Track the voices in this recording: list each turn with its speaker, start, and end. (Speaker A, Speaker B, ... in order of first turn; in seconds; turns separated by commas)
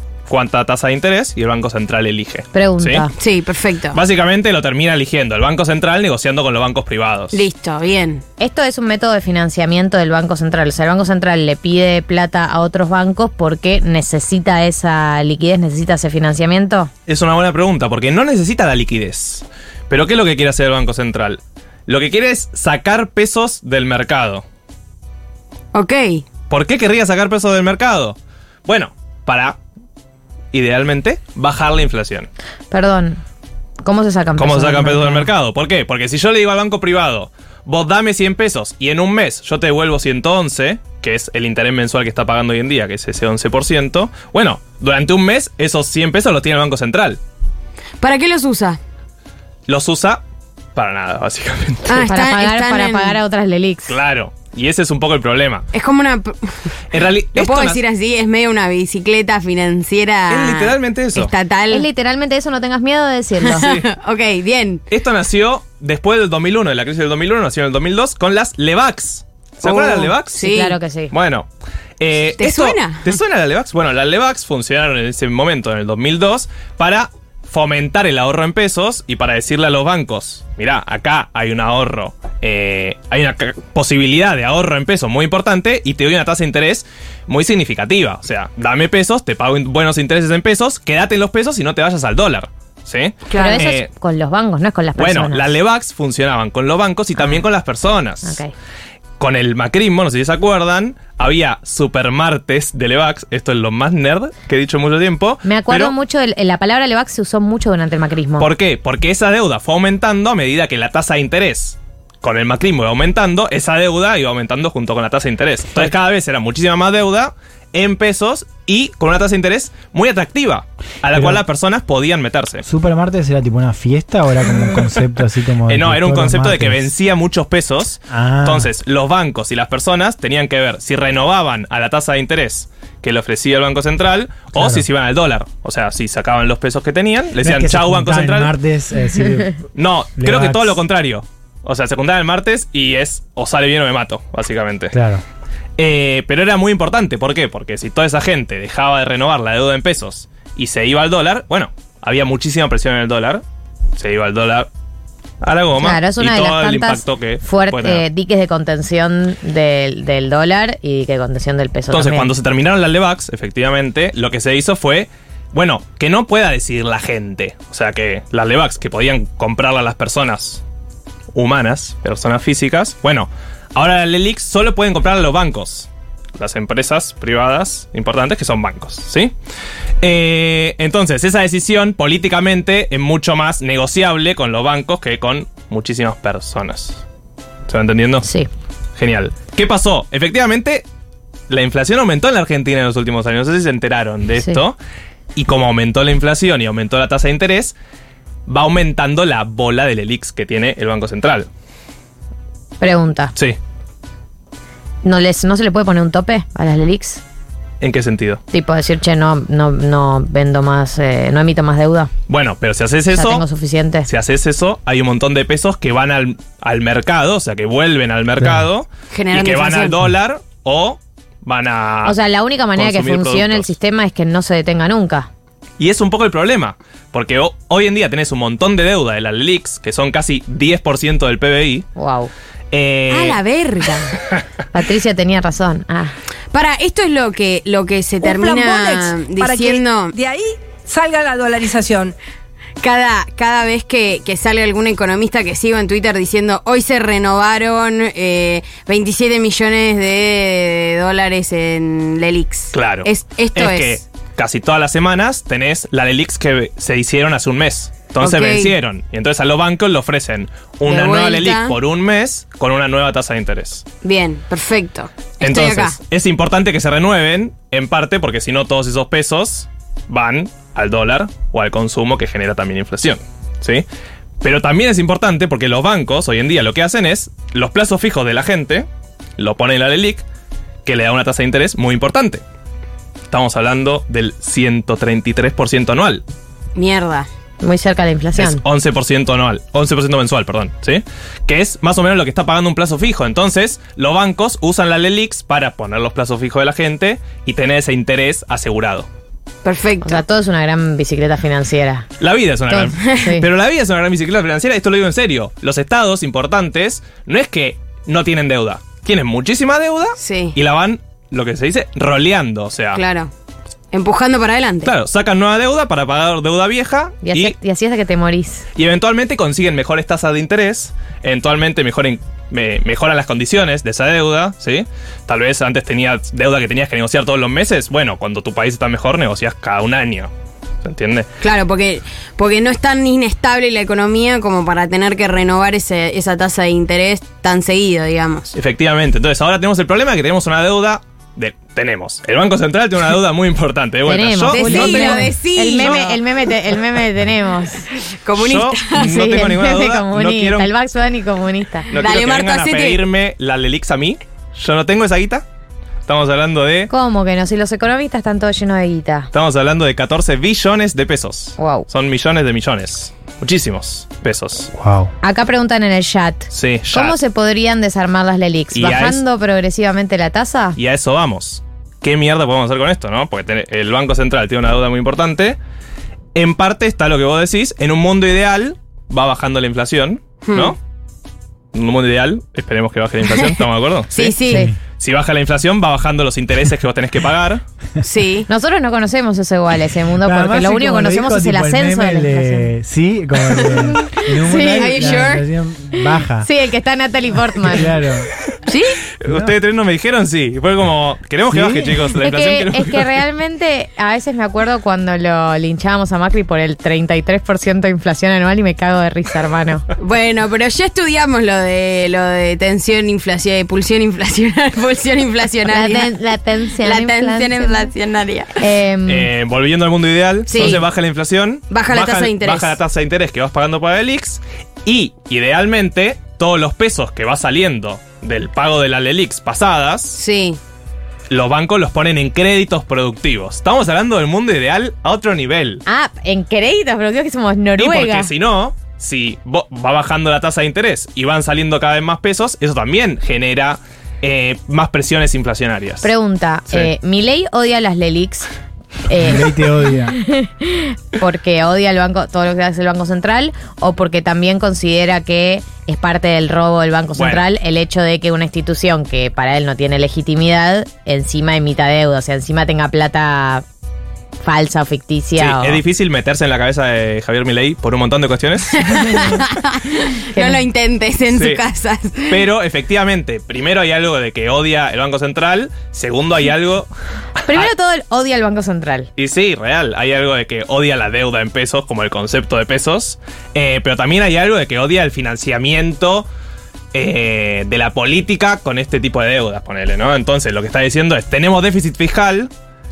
Speaker A: 0.3-3.0, Speaker B: 2.5-3.1, Speaker C: 3.2-4.0, Speaker A: 3.9-7.5, Speaker C: 7.3-8.2, Speaker B: 8.4-16.9, Speaker A: 17.1-24.4, Speaker C: 25.7-26.2, Speaker A: 26.5-29.6, Speaker A: 30.5-32.3, Speaker B: 32.7-33.2, Speaker B: 33.8-35.3, Speaker A: 34.4-47.2, Speaker C: 48.0-48.8, Speaker A: 49.7-50.2, Speaker A: 50.7-52.0, Speaker C: 51.9-53.2, Speaker B: 52.0-54.0, Speaker A: 53.9-55.6, Speaker C: 55.7-56.7, Speaker A: 56.9-57.8, Speaker C: 57.3-61.9, Speaker A: 60.3-61.3, Speaker B: 61.7-63.7, Speaker C: 63.4-64.8, Speaker A: 63.6-63.9, Speaker A: 64.9-70.5, Speaker C: 69.6-70.8, Speaker B: 70.4-71.1, Speaker A: 71.1-71.5, Speaker A: 72.0-93.9, Speaker C: 72.4-73.2, Speaker C: 93.3-93.6, Speaker B: 93.3-95.5, Speaker A: 95.0-98.4, Speaker B: 98.2-98.5, Speaker A: 99.2-105.9, Speaker B: 105.4-108.5, Speaker A: 108.4-122.6, Speaker D: 121.1-121.4, Speaker D: 122.6-126.8, Speaker A: 125.7-138.5, Speaker D: 128.1-128.7, Speaker D: 134.5-134.8, Speaker D: 137.4-139.7, Speaker A: 139.7-144.9, Speaker D: 140.2-140.8, Speaker D: 144.9-145.2, Speaker A: 145.8-153.4, Speaker A: 153.9-154.7, Speaker A: 155.4-158.0, Speaker B: 155.8-162.3, Speaker A: 161.9-170.6, Speaker A: 171.3-179.3, Speaker A: 180.0-187.0, Speaker A: 187.7-188.2, Speaker B: 188.2-188.5, Speaker A: 189.0-190.8, Speaker A: 191.5-194.8, Speaker A: 195.3-197.7, Speaker A: 198.5-201.5, Speaker B: 202.8-203.3, Speaker B: 205.0-207.2, Speaker A: 207.8-208.4, Speaker B: 208.5-212.1, Speaker A: 212.3-213.4, Speaker B: 213.1-214.1, Speaker A: 214.1-222.2, Speaker D: 218.4-218.7, Speaker C: 219.1-220.0, Speaker B: 222.0-225.3, Speaker A: 222.7-223.7, Speaker A: 225.8-231.9, Speaker B: 231.9-232.3, Speaker A: 232.7-233.4, Speaker C: 233.1-234.2, Speaker B: 234.7-236.1, Speaker C: 236.5-240.1, Speaker E: 238.2-242.1, Speaker C: 242.8-254.0, Speaker A: 252.7-263.8, Speaker C: 258.2-258.7, Speaker C: 260.9-261.7, Speaker C: 264.0-266.0, Speaker A: 265.4-273.8, Speaker A: 274.4-278.9, Speaker A: 279.4-280.2, Speaker A: 280.8-282.4, Speaker A: 283.3-286.2, Speaker C: 286.7-287.3, Speaker B: 287.6-288.6, Speaker A: 288.4-299.1, Speaker C: 299.6-300.2, Speaker B: 300.0-302.1, Speaker A: 302.2-313.0, Speaker B: 302.7-303.5, Speaker C: 310.2-310.6, Speaker C: 312.9-313.3, Speaker C: 313.9-314.9, Speaker A: 314.8-317.6, Speaker B: 317.2-318.6, Speaker A: 318.8-330.3, Speaker A: 330.8-331.3, Speaker C: 331.4-338.5, Speaker A: 338.5-346.1, Speaker B: 344.1-347.9, Speaker C: 344.5-346.2, Speaker C: 348.1-349.4, Speaker A: 348.4-350.7, Speaker B: 348.9-351.9, Speaker A: 351.9-355.4, Speaker C: 351.9-353.0, Speaker A: 356.1-356.9, Speaker B: 356.9-359.3, Speaker A: 359.3-364.7, Speaker B: 361.6-361.9, Speaker D: 364.7-365.1, Speaker B: 365.2-370.8, Speaker A: 366.5-367.2, Speaker A: 368.7-369.2, Speaker A: 370.8-375.6, Speaker A: 376.3-380.8, Speaker C: 380.4-380.7, Speaker A: 381.7-384.4, Speaker C: 384.1-384.7, Speaker D: 384.5-384.8, Speaker A: 384.9-387.6, Speaker C: 388.0-388.5, Speaker B: 388.5-392.7, Speaker D: 390.2-396.5, Speaker B: 394.1-395.3, Speaker C: 394.5-395.4, Speaker B: 396.3-397.9, Speaker D: 397.5-398.3, Speaker C: 398.7-399.0, Speaker A: 399.1-403.2, Speaker D: 399.2-399.5, Speaker D: 401.5-401.9, Speaker B: 402.1-409.9, Speaker C: 410.0-416.1, Speaker B: 415.7-417.9, Speaker C: 416.8-418.6, Speaker B: 418.6-419.3, Speaker A: 419.1-430.2, Speaker C: 420.5-420.8, Speaker B: 420.5-420.8, Speaker C: 421.7-422.8, Speaker C: 430.1-430.6, Speaker A: 431.3-435.8, Speaker B: 435.9-438.3, Speaker A: 437.8-446.1, Speaker B: 446.0-448.5, Speaker B: 449.1-463.6, Speaker D: 449.1-450.2, Speaker A: 457.1-457.4, Speaker B: 464.4-465.8, Speaker A: 465.4-468.9, Speaker C: 468.7-472.4, Speaker B: 470.3-470.6, Speaker A: 471.3-471.6, Speaker A: 472.2-476.9, Speaker B: 477.5-479.1, Speaker A: 479.2-486.3, Speaker A: 486.9-492.5